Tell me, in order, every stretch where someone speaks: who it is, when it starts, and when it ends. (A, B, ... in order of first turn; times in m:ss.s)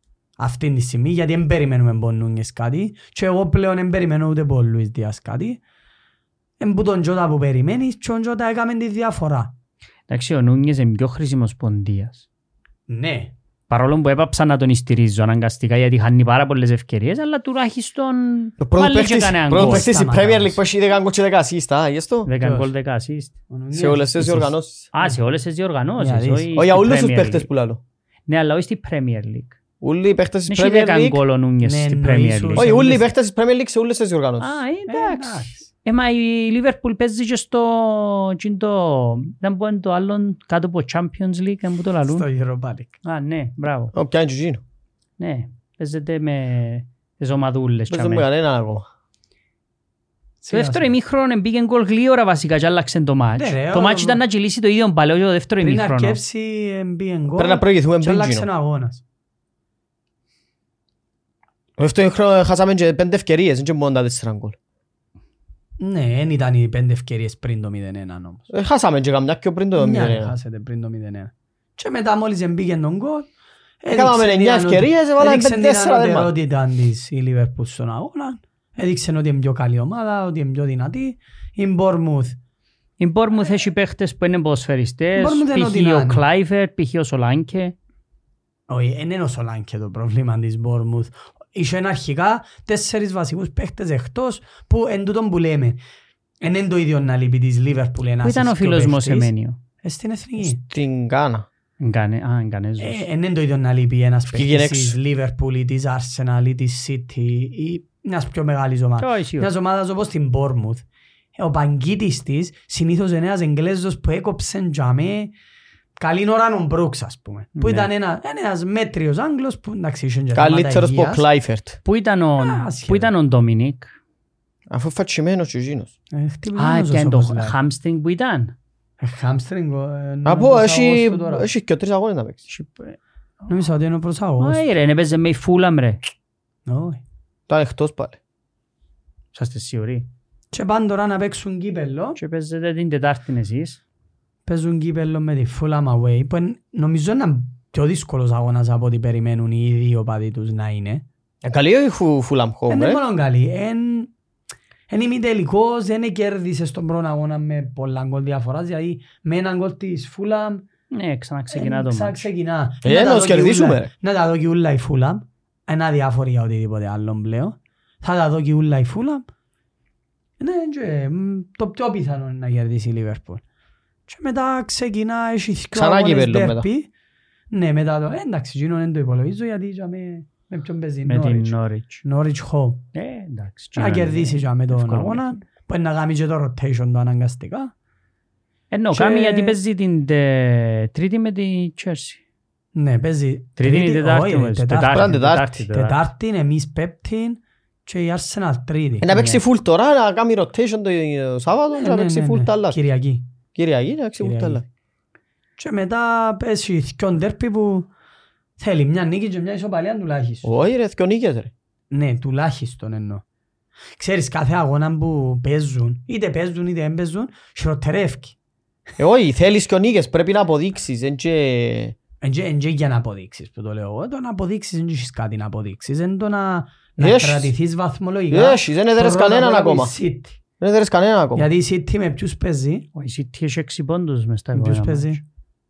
0:00.4-0:05.6 A
0:06.6-0:09.5 A
0:10.1-0:12.2 B
0:12.9-0:13.3 A
0:13.7-0:20.0 B
0:18.6-0:22.3 C
0:19.5-0:20.6 A
0:22.2-0:23.4 B
0:22.4-0:22.7 A
0:23.5-0:25.2 A
0:23.7-0:24.9 C
0:24.9-0:27.5 B
0:26.0-0:26.5 A
0:26.5-0:27.8 C
0:28.3-0:29.6 B
0:29.8-0:31.2 C
0:30.5-0:32.7 B
0:31.6-0:33.0 A
0:32.6-0:34.6 C
0:34.4-0:42.2 B
0:34.9-0:35.7 A
0:42.1-0:42.9 A
0:43.0-0:43.9 B
0:43.9-0:44.6 C
0:45.2-0:48.2 B
0:47.9-0:48.8 C
0:50.4-0:50.9 A
0:50.5-0:56.2 B
0:53.4-0:54.2 A
0:55.6-0:59.0 A
0:57.4-0:58.5 C
1:01.8-1:04.6 C
1:05.8-1:08.5 A
1:08.5-1:10.3 C
1:09.8-1:13.3 A
1:13.8-1:22.4 A
1:13.9-1:16.3 C
1:23.0-1:27.7 B
1:25.2-1:26.2 A
1:28.7-1:35.8 A
1:36.4-1:39.3 A
1:38.2-1:39.6 B
1:39.8-1:40.6 A
1:40.4-1:41.4 C
1:41.8-1:43.0 B
1:42.8-1:50.8 A
1:44.3-1:45.0 C
1:49.0-1:49.5 B
1:51.4-1:55.3 A
1:56.0-2:01.2 A
1:57.6-1:57.9 B
2:00.3-2:01.8 C
2:01.8-2:03.9 B
2:02.4-2:03.1 A
2:04.7-2:05.9 C
2:06.1-2:07.6 A
2:06.6-2:08.5 B
2:09.0-2:11.5 A
2:10.2-2:12.4 C
2:12.5-2:13.5 B
2:13.5-2:14.6 A
2:14.4-2:16.0 B
2:16.6-2:17.0 A
2:17.5-2:18.2 C
2:19.3-2:20.1 B
2:20.5-2:22.2 A
2:22.2-2:23.8 B
2:24.5-2:31.0 A
2:31.4-2:33.0 C
2:32.7-2:34.1 A
2:34.9-2:40.6 A
2:40.9-2:42.2 B
2:41.5-2:49.2 A
2:42.8-2:43.9 C
2:50.4-2:53.4 A
2:54.1-2:56.9 A
2:55.7-2:56.7 C
2:57.5-3:02.8 A
3:01.1-3:02.0 B
3:02.9-3:05.4 B
3:03.8-3:07.7 A
3:08.7-3:12.2 B
3:08.9-3:09.5 A
3:12.7-3:19.2 A
3:13.6-3:16.0 B
3:14.9-3:15.5 C
3:19.0-3:22.8 C
3:19.1-3:19.4 B
3:21.7-3:23.2 A
3:23.5-3:24.6 C
3:24.2-3:24.6 A
3:25.6-3:27.9 A
3:28.6-3:30.5 A
3:30.4-3:31.5 C
3:31.9-3:33.2 A
3:34.0-3:38.3 A
3:39.0-3:42.0 C
3:42.2-3:50.4 A
3:47.0-3:47.5 C
3:48.3-3:49.9 C
3:50.6-3:51.5 C
3:51.4-3:52.9 A
3:53.0-3:55.2 B
3:54.5-3:55.2 A